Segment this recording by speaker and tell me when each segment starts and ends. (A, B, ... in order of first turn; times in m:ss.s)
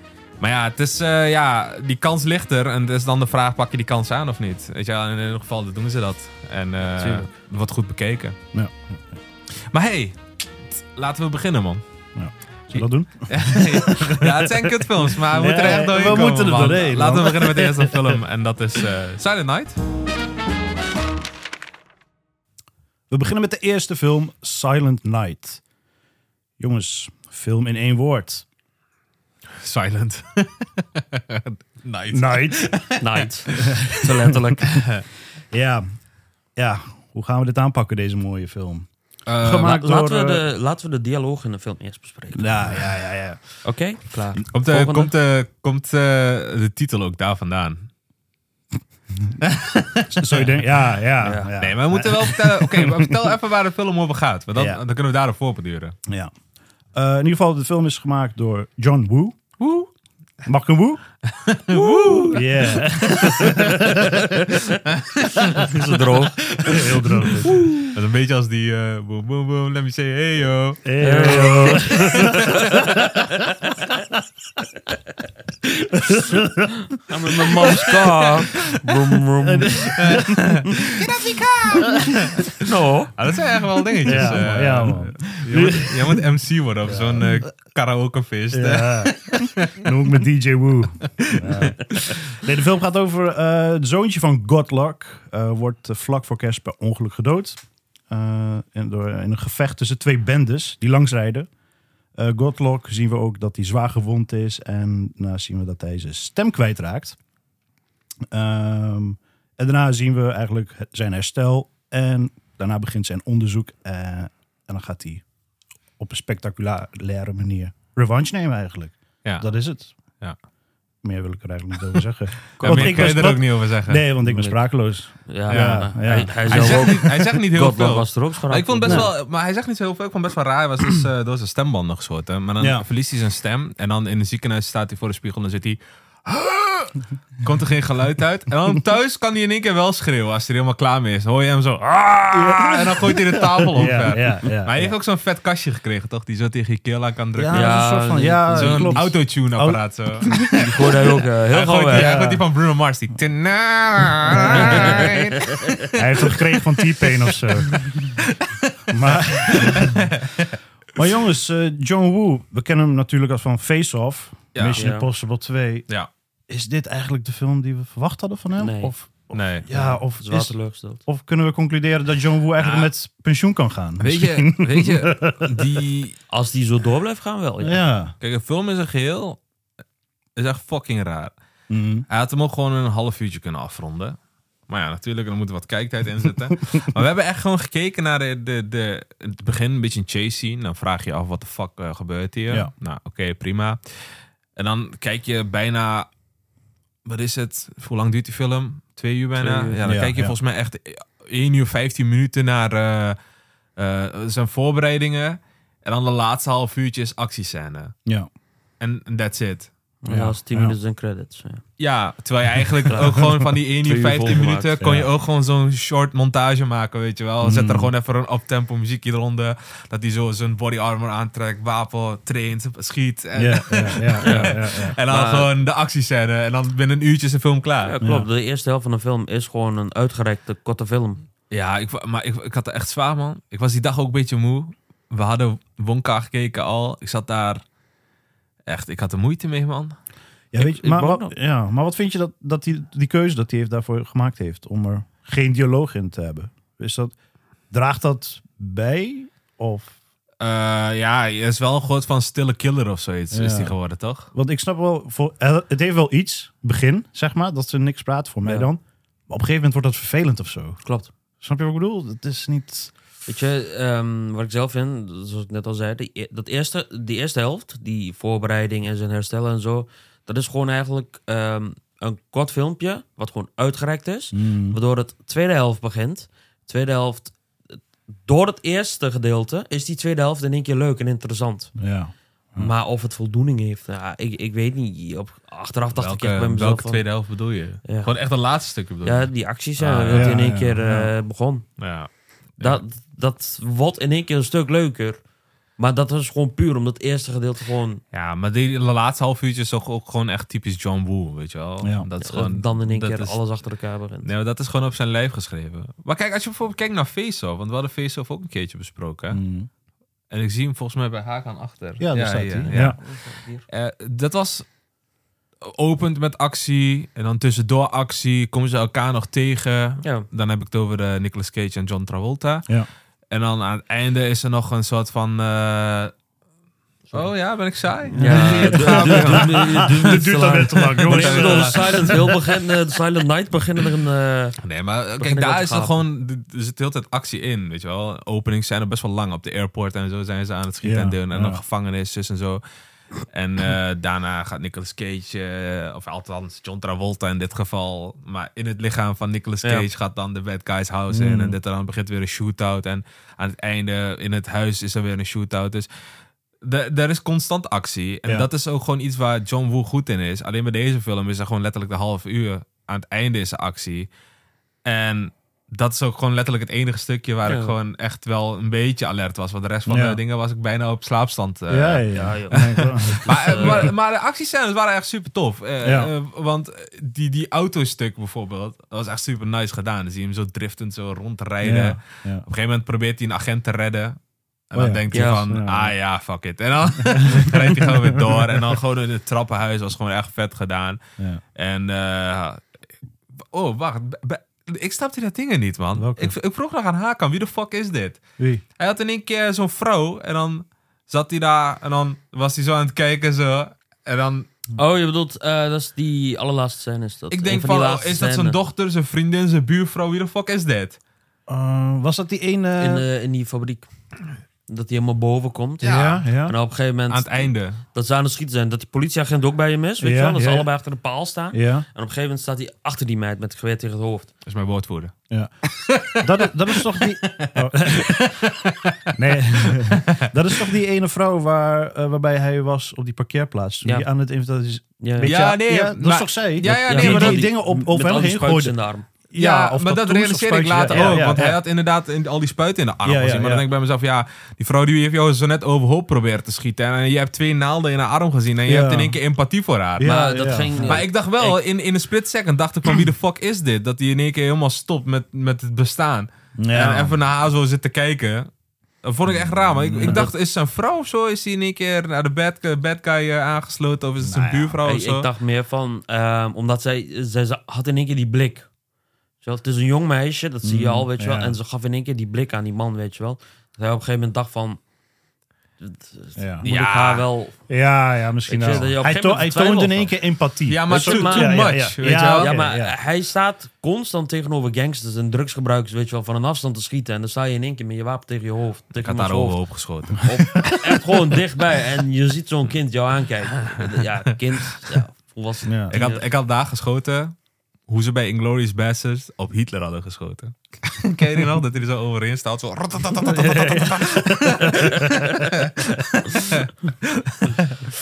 0:00.4-0:08.4 A
0:06.9-0:07.3 B
0:08.5-0:09.2 C
0:09.7-0:12.1 A
0:12.1-0:18.0 C
0:12.7-0:19.8 A
0:23.1-0:25.6 C
0:26.6-0:28.5 C
0:29.6-0:33.9 A
0:32.1-0:32.9 C
0:33.0-0:34.8 B
0:34.6-0:35.0 A
0:35.5-0:35.9 C
0:36.5-0:40.4 C
0:39.2-0:39.7 A
0:39.6-0:42.8 B
0:42.3-0:43.6 C
0:43.6-0:45.1 B
0:44.5-0:47.9 A
0:49.4-0:50.1 A
0:50.1-0:53.3 C
0:51.2-0:51.5 B
0:51.6-0:56.0 A
0:54.5-0:54.8 C
0:56.1-0:56.3 C
0:56.9-0:59.5 C
0:59.6-0:59.9 A
1:00.4-1:01.1 C
1:01.3-1:03.6 A
1:01.7-1:02.4 B
1:02.3-1:03.7 C
1:03.6-1:04.4 B
1:05.0-1:05.7 A
1:05.6-1:07.7 B
1:06.7-1:07.6 C
1:07.8-1:11.0 A
1:10.8-1:12.3 C
1:11.0-1:13.7 B
1:11.9-1:12.4 A
1:15.9-1:16.7 C
1:17.0-1:20.2 B
1:17.5-1:18.0 C
1:19.4-1:20.6 C
1:20.0-1:22.6 A
1:22.6-1:23.1 B
1:23.1-1:29.9 A
1:24.0-1:26.2 C
1:26.8-1:27.4 C
1:28.5-1:41.5 C
1:31.3-1:31.9 A
1:42.1-1:47.2 C
1:48.3-1:55.2 C
1:56.0-1:59.9 C
1:59.2-2:00.4 A
2:01.0-2:06.9 C
2:02.6-2:04.1 A
2:02.6-2:03.2 B
2:04.2-2:09.1 B
2:05.5-2:27.9 A
2:08.8-2:09.1 C
2:12.6-2:12.8 C
2:22.3-2:24.9 C
2:27.4-2:30.5 C
2:27.5-2:29.1 B
2:28.5-2:36.4 A
2:30.6-2:32.2 B
2:31.9-2:32.4 C
2:34.3-2:35.1 C
2:34.4-2:35.2 B
2:35.9-2:38.2 C
2:37.8-2:38.8 A
2:38.9-2:40.1 C
2:39.4-2:40.6 A
2:40.9-2:45.9 C
2:44.5-2:44.8 A
2:44.7-2:45.0 B
2:46.5-2:55.5 C
2:48.6-2:51.0 B
2:49.3-2:49.7 A
2:52.6-2:52.9 A
2:54.0-2:56.2 A
2:56.3-2:57.8 B
2:57.6-2:58.1 C
2:58.2-2:59.4 A
3:00.4-3:01.3 A
3:01.7-3:02.0 C
3:02.1-3:16.1 A
3:17.0-3:23.2 A
3:19.4-3:19.8 B
3:19.8-3:20.3 C
3:23.8-3:28.0 A
3:28.8-3:29.7 A
3:30.0-3:31.7 B
3:30.1-3:30.8 C
3:31.8-3:47.9 A
3:32.9-3:34.7 B
3:34.8-3:35.1 C
3:37.4-3:37.9 C
3:43.4-3:45.0 C
3:44.2-3:44.6 B
3:45.1-3:45.5 B
3:47.8-3:51.2 B
3:48.0-3:48.3 C
3:51.5-3:57.6 A
3:58.6-4:00.0 A
4:00.5-4:07.2 C
4:00.6-4:01.3 B
4:07.7-4:09.9 C
4:10.4-4:14.3 A
4:13.3-4:20.8 C
4:18.4-4:18.7 B
4:20.8-4:21.1 B
4:21.4-4:22.9 C
4:23.2-4:41.9 B
4:34.3-4:34.8 C
4:41.8-4:42.7 C
4:42.5-4:48.1 B
4:46.0-4:50.4 A
4:49.0-4:51.9 B
4:50.1-4:51.1 C
4:51.8-4:52.8 A
4:52.5-4:55.2 B
4:55.8-4:58.0 B
4:58.1-5:03.4 A
5:01.8-5:02.1 C
5:02.2-5:04.3 B
5:04.2-5:09.4 A
5:09.3-5:09.7 C
5:10.3-5:14.8 A
5:12.0-5:13.0 C
5:12.7-5:13.6 B
5:15.6-5:26.2 A
5:20.0-5:20.3 B
5:27.1-5:30.0 A
5:28.1-5:36.0 B
5:28.1-5:32.3 C
5:31.1-5:32.2 A
5:34.6-5:42.6 A
5:40.8-5:41.6 C
5:43.3-5:55.9 A
5:51.1-5:51.6 C
5:56.6-6:04.1 A
6:04.8-6:31.0 A
6:07.4-6:07.7 B
6:09.9-6:10.2 C
6:11.7-6:13.9 C
6:12.1-6:13.9 B
6:15.8-6:16.1 C
6:21.6-6:22.4 C
6:24.7-6:25.9 C
6:25.1-6:25.4 B
6:27.0-6:28.0 C
6:31.5-6:32.6 A
6:33.4-6:44.5 A
6:35.9-6:36.3 C
6:38.4-6:38.6 C
6:44.8-6:48.6 B
6:47.3-6:51.0 A
6:51.5-6:53.0 C
6:52.8-6:53.9 B
6:54.7-7:04.3 B
6:55.8-6:56.5 C
6:55.8-6:56.2 A
6:57.1-6:57.8 A
7:00.0-7:00.7 C
7:01.5-7:01.8 C
7:04.4-7:05.2 A
7:05.8-7:06.2 A
7:06.1-7:08.2 C
7:06.7-7:10.3 A
7:09.1-7:21.6 C
7:15.0-7:15.3 B
7:15.2-7:17.5 A
7:16.6-7:19.1 B
7:19.4-7:30.2 A
7:20.9-7:21.4 B
7:23.0-7:23.7 C
7:28.6-7:29.2 C
7:30.0-7:31.0 C
7:30.0-7:31.6 B
7:30.8-7:45.3 A
7:36.6-7:37.2 C
7:39.3-7:40.3 C
7:40.0-7:40.3 B
7:44.2-7:44.8 C
7:44.8-7:48.7 B
7:49.4-7:54.8 B
7:50.6-7:51.6 C
7:55.8-7:57.8 B
7:56.4-7:56.6 C
7:56.6-7:57.2 A
7:57.7-8:02.9 C
7:58.5-8:00.1 B
8:00.7-8:02.5 A
8:00.9-8:16.2 B
8:09.0-8:10.3 A
8:15.7-8:15.9 C
8:15.9-8:27.9 A
8:23.2-8:24.9 C